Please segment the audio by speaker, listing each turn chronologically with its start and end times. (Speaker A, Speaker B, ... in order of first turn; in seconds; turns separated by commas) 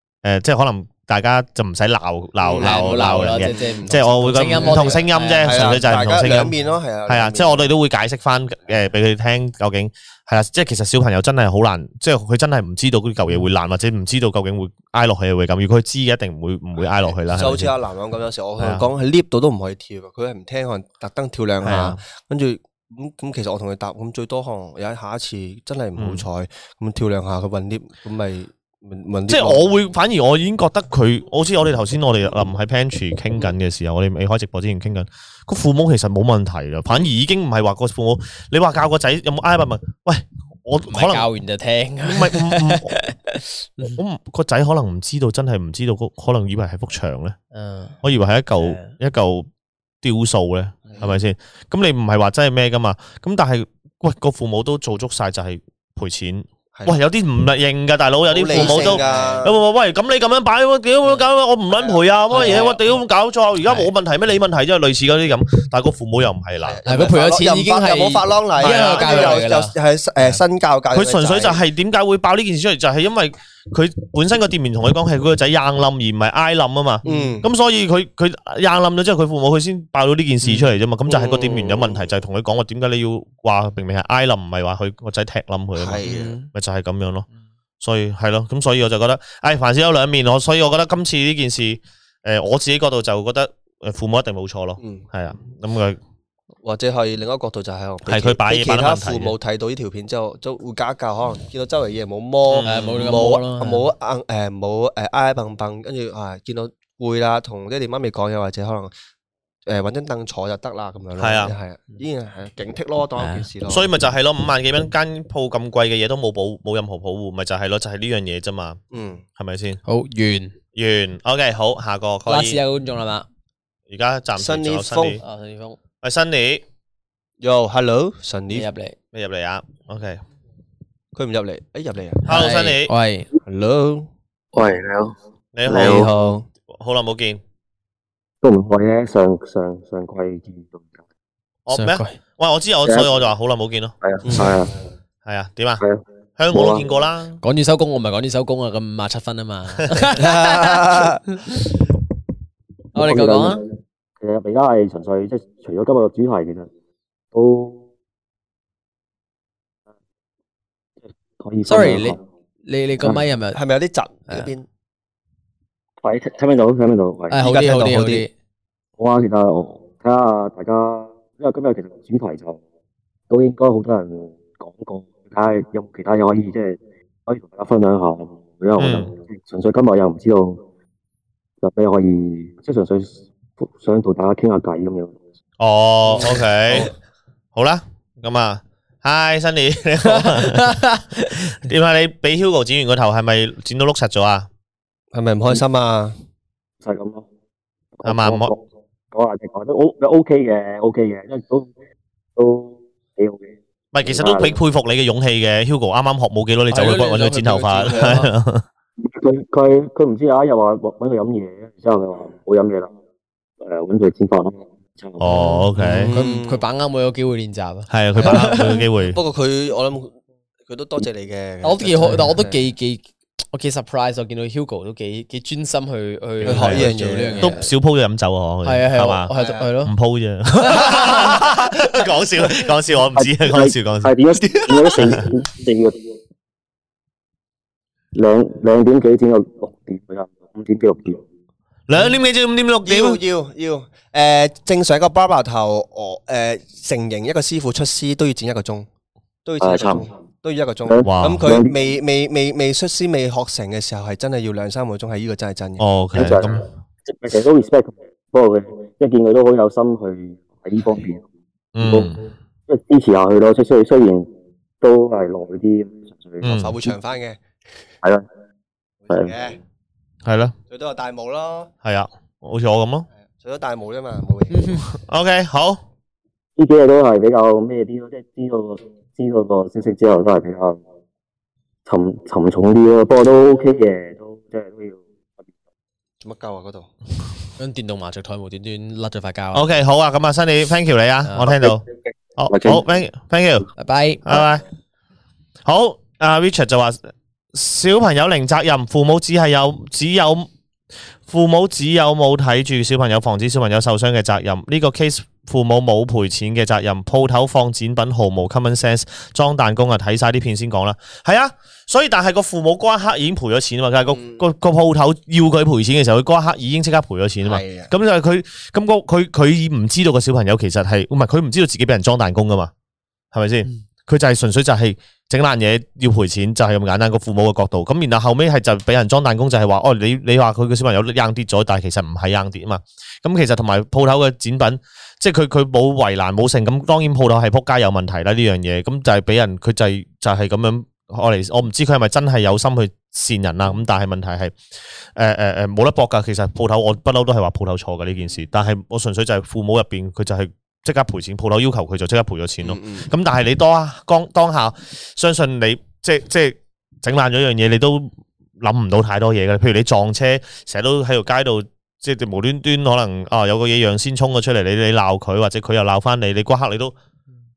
Speaker A: 0.2-6.5, Speaker B: 2.4-7.7, Speaker C: 2.5-6.0, Speaker A: 7.0-17.7, Speaker B: 16.8-29.7, Speaker A: 18.6-18.9, Speaker A: 21.6-22.0, Speaker A: 26.0-26.2, Speaker A: 29.3-41.3, Speaker C: 40.9-44.0, Speaker A: 42.0-43.0, Speaker A: 43.9-47.4, Speaker C: 47.5-48.0, Speaker A: 48.0-49.5, Speaker C: 48.6-48.9, Speaker A: 50.0-66.8, Speaker B: 58.3-59.6, Speaker C: 58.5-59.4, Speaker B: 61.7-62.7, Speaker C: 62.3-62.8, Speaker C: 63.6-63.9, Speaker B: 66.6-71.6, Speaker C: 66.8-69.7, Speaker A: 68.6-69.4, Speaker A: 70.9-87.2, Speaker C: 77.0-77.4, Speaker B: 77.0-77.5, Speaker C: 80.4-80.7, Speaker B: 81.1-82.0, Speaker B: 85.8-86.3, Speaker C: 86.0-86.5, Speaker A: 87.8-96.0, Speaker B: 94.8-95.0, Speaker B: 96.6-108.9, Speaker A: 98.0-99.3, Speaker A: 102.5-103.1, Speaker C: 102.6-103.9, Speaker B: 109.7-113.9, Speaker A: 111.2-111.5, Speaker C: 113.2-113.5, Speaker A: 113.7-118.8, Speaker B: 118.9-119.2, Speaker A: 119.4-119.8, Speaker C: 119.8-120.5, Speaker A: 120.8-122.6, Speaker C: 122.2-123.2, Speaker A: 123.9-125.2, Speaker B: 124.3-125.2, Speaker C: 125.2-125.8, Speaker A: 126.0-126.6, Speaker B: 127.4-128.7, Speaker C: 128.5-128.9, Speaker A: 129.1-130.2, Speaker B: 131.1-132.2, Speaker C: 132.2-133.3, Speaker A: 132.3-132.9, Speaker B: 133.4-134.1, Speaker D: 134.5-135.1, Speaker A: 135.5-136.1, Speaker B: 135.7-136.4, Speaker D: 135.7-136.1, Speaker A: 136.7-137.4, Speaker D: 138.4-140.9, Speaker A: 141.7-143.9, Speaker C: 141.7-142.2, Speaker D: 144.0-144.7, Speaker B: 144.2-144.6, Speaker A: 145.2-145.8, Speaker D: 145.8-146.8, Speaker A: 146.4-147.4, Speaker C: 147.4-151.6, Speaker B: 150.2-151.2, Speaker C: 152.9-153.6, Speaker D: 152.9-153.6, Speaker D: 154.2-156.7, Speaker D: 157.3-157.8, Speaker D: 161.4-162.2, Speaker C: 161.7-163.6, Speaker B: 163.5-164.7, Speaker D: 166.0-167.4, Speaker C: 167.3-168.3, Speaker B: 167.4-168.3, Speaker D: 169.0-172.6, Speaker D: 173.3-180.6, Speaker A: 178.8-179.1, Speaker D: 181.6-185.1, Speaker A: 185.6-186.9, Speaker B: 186.1-186.9, Speaker A: 187.5-194.5, Speaker C: 190.1-191.3, Speaker B: 195.1-196.2, Speaker D: 196.8-197.2, Speaker D: 198.0-198.6, Speaker A: 198.0-198.5, Speaker D: 199.1-201.7, Speaker D: 202.3-203.5, Speaker A: 203.9-208.6, Speaker D: 204.0-204.6, Speaker C: 206.7-208.3, Speaker D: 209.0-212.9, Speaker D: 213.6-215.6, Speaker A: 215.2-216.1, Speaker C: 215.4-218.8, Speaker B: 215.8-216.6, Speaker A: 217.9-219.2, Speaker B: 218.2-222.6, Speaker C: 221.6-227.7, Speaker B: 226.4-227.5, Speaker A: 226.4-229.3, Speaker C: 228.6-229.9, Speaker B: 229.3-229.7, Speaker A: 229.8-234.1, Speaker C: 230.6-231.4, Speaker D: 233.2-236.0, Speaker B: 234.3-235.2, Speaker A: 235.0-235.2, Speaker D: 238.1-241.2, Speaker A: 241.9-243.2, Speaker B: 242.8-248.9, Speaker B: 249.4-256.4, Speaker D: 249.6-250.1, Speaker D: 250.8-251.7, Speaker A: 251.0-251.5, Speaker A: 255.8-256.6, Speaker D: 256.1-261.2, Speaker A: 261.7-262.2, Speaker D: 261.8-264.3, Speaker D: 264.8-266.9, Speaker A: 266.4-266.7, Speaker B: 266.6-267.4, Speaker B: 269.0-269.6, Speaker D: 269.1-269.3, Speaker A: 270.2-270.5, Speaker B: 270.7-271.7, Speaker A: 271.8-273.1, Speaker B: 273.3-274.8, Speaker C: 274.5-274.8, Speaker A: 275.0-275.8, Speaker D: 276.6-280.8, Speaker D: 281.9-285.0, Speaker B: 286.2-286.9, Speaker C: 287.6-289.6, Speaker A: 289.5-291.8, Speaker A: 292.4-293.7, Speaker D: 292.5-292.8, Speaker C: 293.8-294.4, Speaker A: 294.2-294.6, Speaker A: 295.6-297.0, Speaker A: 297.5-300.5, Speaker A: 301.3-322.7, Speaker B: 314.1-314.4, Speaker B: 317.4-317.9, Speaker A: 323.3-344.6, Speaker A: 345.1-366.9, Speaker B: 352.6-353.1